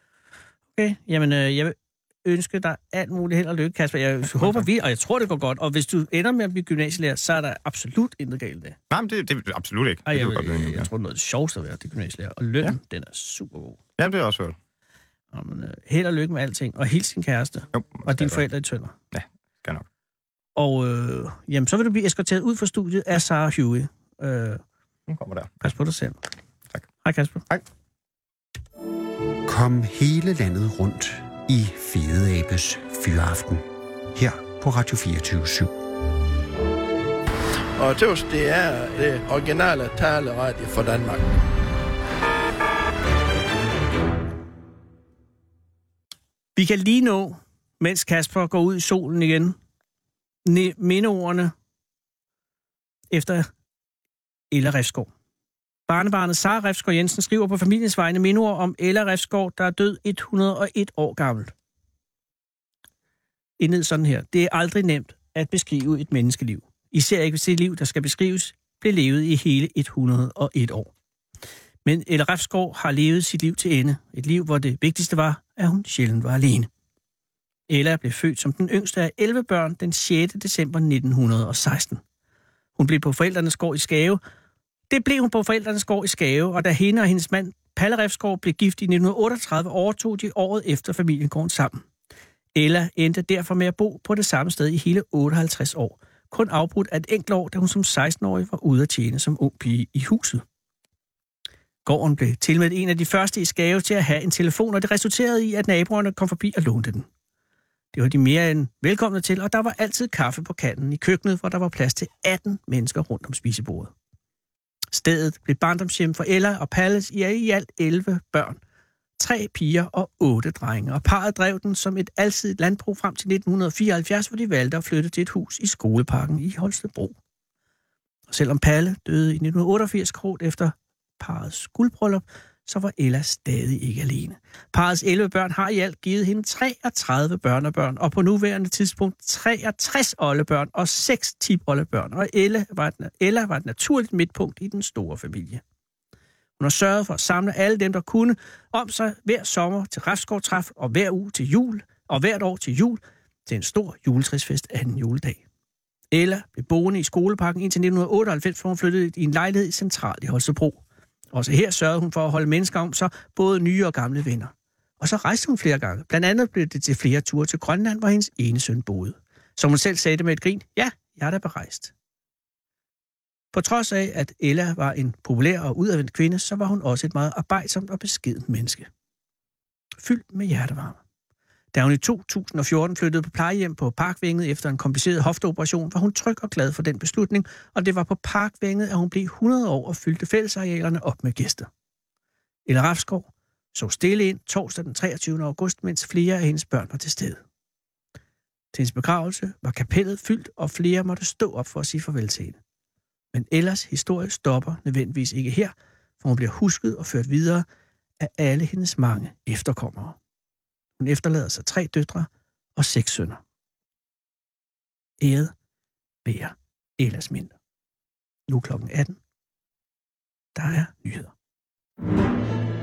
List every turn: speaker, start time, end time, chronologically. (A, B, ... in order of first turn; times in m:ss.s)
0:00.8-0:08.8 A
0:08.9-0:10.9 B
0:10.1-0:13.8 A
0:14.0-0:14.6 B
0:15.3-0:19.0 A
0:17.7-0:18.4 B
0:19.1-0:19.8 B
0:20.6-0:24.6 A
0:25.1-0:25.7 B
0:25.6-0:26.2 A
0:27.0-0:27.4 A
0:29.5-0:35.7 C
0:37.8-0:41.2 D
0:46.6-0:49.6 A
0:50.4-0:51.5 A
0:53.1-0:53.5 A
0:54.5-0:55.1 A
0:55.9-1:01.5 A
1:03.6-1:10.9 A
1:11.8-1:16.7 A
1:17.7-1:22.0 A
1:22.8-1:24.2 A
1:24.9-1:31.8 A
1:32.6-1:40.4 A
1:41.8-1:47.1 A
1:47.9-1:53.9 A
1:54.9-1:58.6 A
1:59.2-2:07.2 A
2:08.3-2:25.6 A
2:26.6-2:35.4 A
2:36.1-2:51.9 A
2:53.5-2:58.9 A
3:00.0-3:01.0 A
3:01.7-3:11.7 A
3:12.7-3:17.4 A
3:18.7-3:22.6 A
3:23.3-3:27.7 A
3:28.2-3:30.2 A
3:31.0-3:33.4 A
3:35.2-3:35.5 A
3:36.2-3:37.6 A
3:38.5-3:39.2 A
3:40.6-3:41.3 A